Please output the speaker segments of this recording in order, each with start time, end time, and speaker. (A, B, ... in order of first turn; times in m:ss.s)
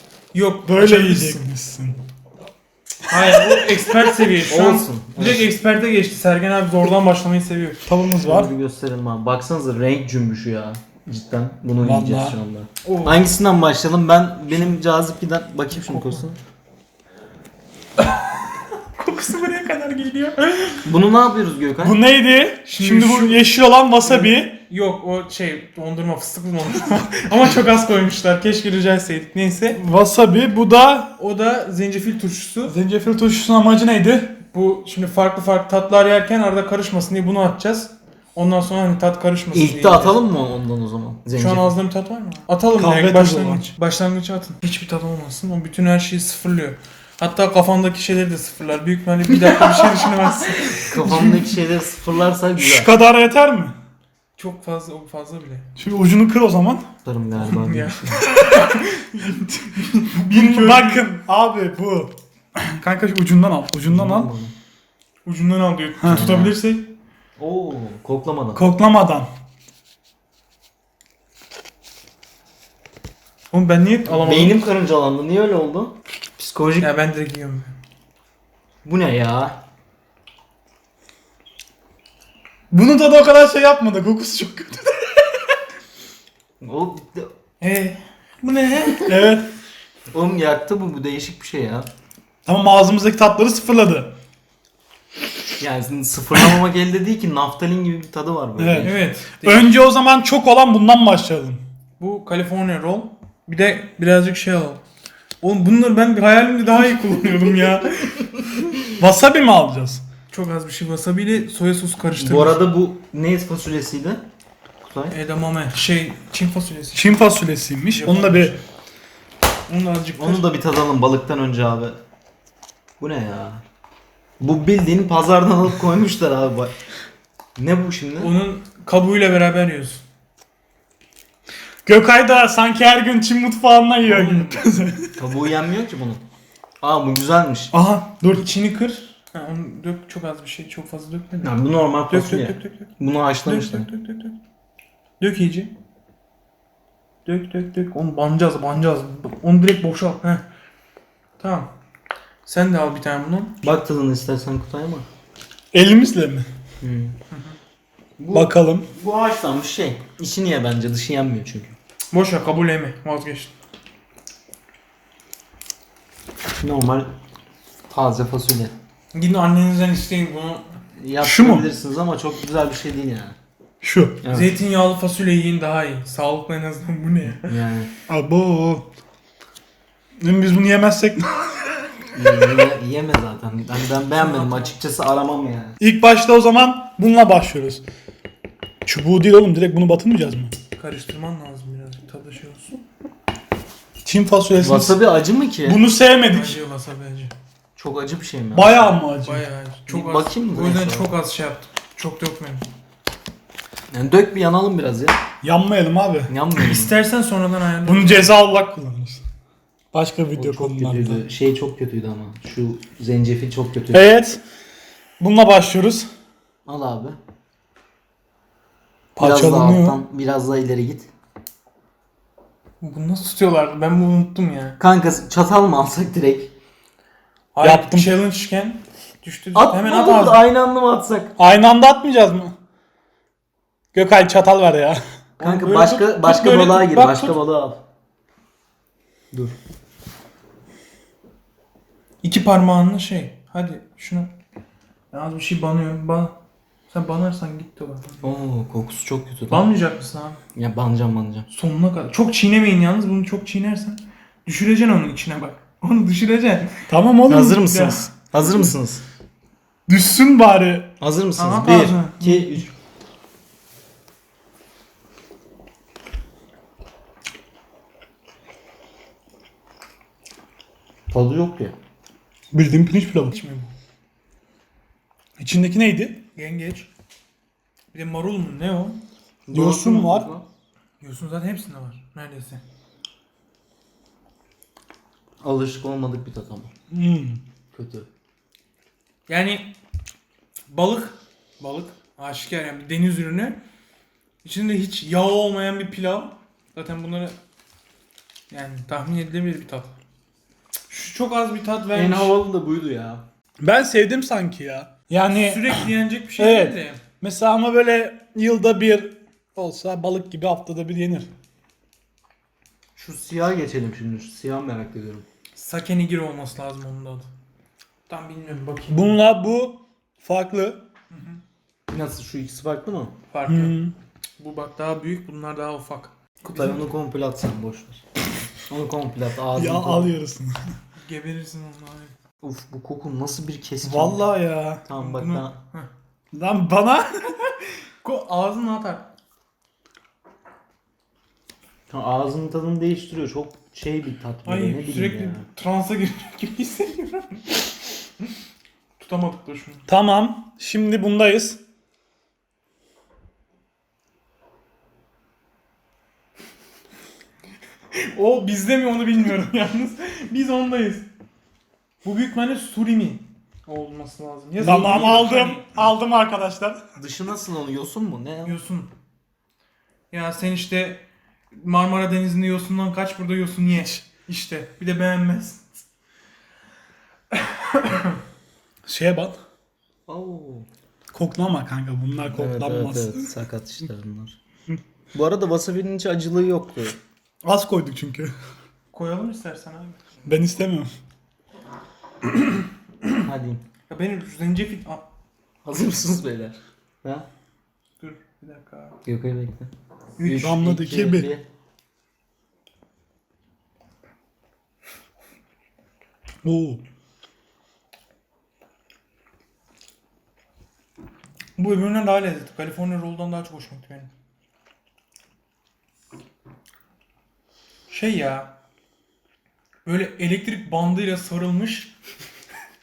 0:00.3-0:01.4 A
0:00.6-0:02.0 B
0:03.1-0:07.8 A
0:04.4-0:05.5 C
0:07.8-0:08.5 B
0:08.2-0:16.4 C
0:11.8-0:12.4 B
0:12.8-0:13.3 A
0:15.7-0:16.3 A
0:18.0-0:20.9 A
0:20.8-0:22.0 C
0:21.8-0:24.6 B
0:22.7-0:23.4 A
0:24.0-0:29.8 A
0:29.7-0:31.1 B
0:31.2-0:32.8 A
0:32.7-0:34.4 B
0:34.5-0:40.2 A
0:39.5-0:41.8 C
0:41.3-0:51.4 A
0:42.8-0:43.6 B
0:50.8-0:52.9 C
0:52.6-0:53.8 B
0:54.4-0:55.7 A
0:55.8-0:56.9 B
0:57.0-0:58.4 C
0:57.4-1:01.0 A
1:00.2-1:04.3 B
1:03.9-1:04.5 C
1:05.2-1:06.9 A
1:06.0-1:06.3 B
1:06.1-1:06.6 C
1:07.4-1:08.7 C
1:08.5-1:09.3 B
1:13.5-1:14.6 A
1:14.1-1:16.9 C
1:16.8-1:17.7 A
1:18.8-1:19.6 C
1:22.7-1:25.3 B
1:26.6-1:27.3 C
1:27.6-1:29.3 A
1:29.1-1:29.5 B
1:30.1-1:31.9 C
1:32.4-1:34.1 B
1:35.6-1:39.0 C
1:38.6-1:41.6 B
1:38.8-1:39.8 A
1:42.0-1:44.8 A
1:45.4-1:48.4 A
1:49.0-1:50.0 B
1:50.3-1:52.6 A
1:52.2-1:54.2 C
1:54.8-1:55.1 C
1:55.1-1:57.2 A
1:56.9-1:58.6 B
1:57.9-1:58.6 A
1:59.7-2:00.4 A
2:00.2-2:02.0 C
2:03.0-2:03.6 C
2:04.4-2:06.7 C
2:07.6-2:08.4 C
2:08.2-2:10.0 A
2:11.8-2:15.2 B
2:14.0-2:14.6 C
2:15.2-2:16.2 C
2:16.8-2:17.7 C
2:17.7-2:18.4 B
2:18.3-2:21.5 A
2:21.4-2:23.9 C
2:22.1-2:22.9 A
2:23.4-2:24.4 A
2:25.2-2:25.7 A
2:27.2-2:30.4 A
2:31.4-2:31.7 A
2:32.4-2:33.6 A
2:33.6-2:35.0 C
2:35.7-2:36.5 B
2:36.8-2:37.2 C
2:37.3-2:37.6 A
2:38.2-2:41.8 C
2:38.3-2:38.9 B
2:42.1-2:43.5 A
2:46.6-2:47.1 C
2:47.9-2:48.7 C
2:49.1-2:50.7 A
2:51.0-2:53.4 C
2:51.2-2:51.7 B
2:53.8-2:54.2 B
2:54.2-2:54.5 C
2:54.3-2:57.6 A
2:57.4-2:57.9 C
2:58.1-2:58.9 B
3:00.2-3:01.6 B
3:02.1-3:05.8 C
3:04.2-3:04.7 A
3:05.8-3:07.8 B
3:08.8-3:10.5 B
3:10.8-3:12.8 A
3:14.0-3:15.0 B
3:14.6-3:15.8 C
3:15.6-3:16.6 B
3:16.3-3:17.3 A
3:17.8-3:18.9 C
3:18.5-3:19.4 B
3:19.2-3:22.7 A
3:19.9-3:21.1 C
3:23.9-3:25.2 C
3:25.4-3:26.3 B
3:26.3-3:26.9 C
3:26.5-3:28.3 A
3:27.8-3:29.2 B
3:29.9-3:31.2 B
3:30.4-3:34.0 C
3:33.9-3:34.4 B
3:35.2-3:36.1 B
3:36.6-3:37.2 C
3:39.2-3:41.1 C
3:39.2-3:40.0 B
3:42.8-3:44.8 A
3:44.8-3:46.5 C
3:47.5-3:50.4 A
3:47.6-3:48.2 B
3:49.5-3:51.3 C
3:51.4-3:52.5 B
3:53.9-3:55.0 B
3:55.4-3:57.4 A
3:55.4-3:57.8 C
4:02.2-4:04.3 A
4:05.1-4:06.4 A
4:06.9-4:08.1 A
4:08.2-4:09.7 C
4:09.5-4:10.4 A
4:10.5-4:11.5 C
4:11.5-4:16.8 A
4:16.9-4:17.7 B
4:17.3-4:19.0 C
4:17.6-4:18.1 A
4:19.9-4:20.9 B
4:21.0-4:22.7 C
4:21.4-4:22.7 A
4:31.1-4:31.7 C
4:32.5-4:33.3 B
4:33.3-4:33.7 A
4:35.4-4:36.2 B
4:36.4-4:36.9 A
4:37.9-4:39.0 A
4:39.4-4:40.4 C
4:39.5-4:40.3 B
4:41.0-4:42.6 A
4:45.4-4:46.7 C
4:46.9-4:47.4 B
4:47.7-4:48.1 C
4:49.3-4:49.7 A
4:50.7-4:53.6 A
4:54.4-4:57.4 A
4:58.5-4:59.9 A
5:00.9-5:02.4 A
5:01.9-5:03.2 C
5:03.6-5:11.3 B
5:05.3-5:07.0 A
5:13.0-5:15.2 C
5:15.6-5:17.3 A
5:18.1-5:19.2 A
5:18.9-5:20.8 B
5:21.1-5:21.4 A
5:21.9-5:23.1 C
5:23.3-5:23.8 A
5:23.4-5:23.9 B
5:24.4-5:26.8 A
5:26.4-5:28.0 C
5:28.6-5:30.1 C
5:29.5-5:30.6 B
5:31.0-5:32.1 A
5:32.4-5:34.2 C
5:33.8-5:34.8 B
5:34.8-5:35.6 C
5:35.0-5:35.9 A
5:36.3-5:37.4 B
5:38.0-5:39.1 A
5:41.9-5:45.4 C
5:44.4-5:47.6 A
5:49.0-5:49.9 A
5:49.9-5:51.6 B
5:58.0-6:01.1 A
6:02.0-6:05.6 A
6:04.6-6:06.8 B
6:07.0-6:08.6 C
6:08.4-6:08.9 A
6:10.1-6:15.8 A
6:17.3-6:18.2 A
6:18.8-6:19.4 B
6:20.1-6:20.7 C
6:21.1-6:23.3 B
6:22.3-6:24.4 C
6:25.1-6:27.0 C
6:27.4-6:28.3 B
6:28.9-6:30.0 A
6:30.2-6:30.9 B
6:33.2-6:33.6 C
6:33.9-6:35.0 A
6:35.6-6:37.3 C
6:38.0-6:39.0 A
6:39.0-6:41.4 C
6:40.2-6:40.5 A
6:40.3-6:41.3 B
6:46.4-6:46.8 B
6:51.6-6:54.1 A
6:57.9-6:58.5 A
6:59.8-7:01.9 A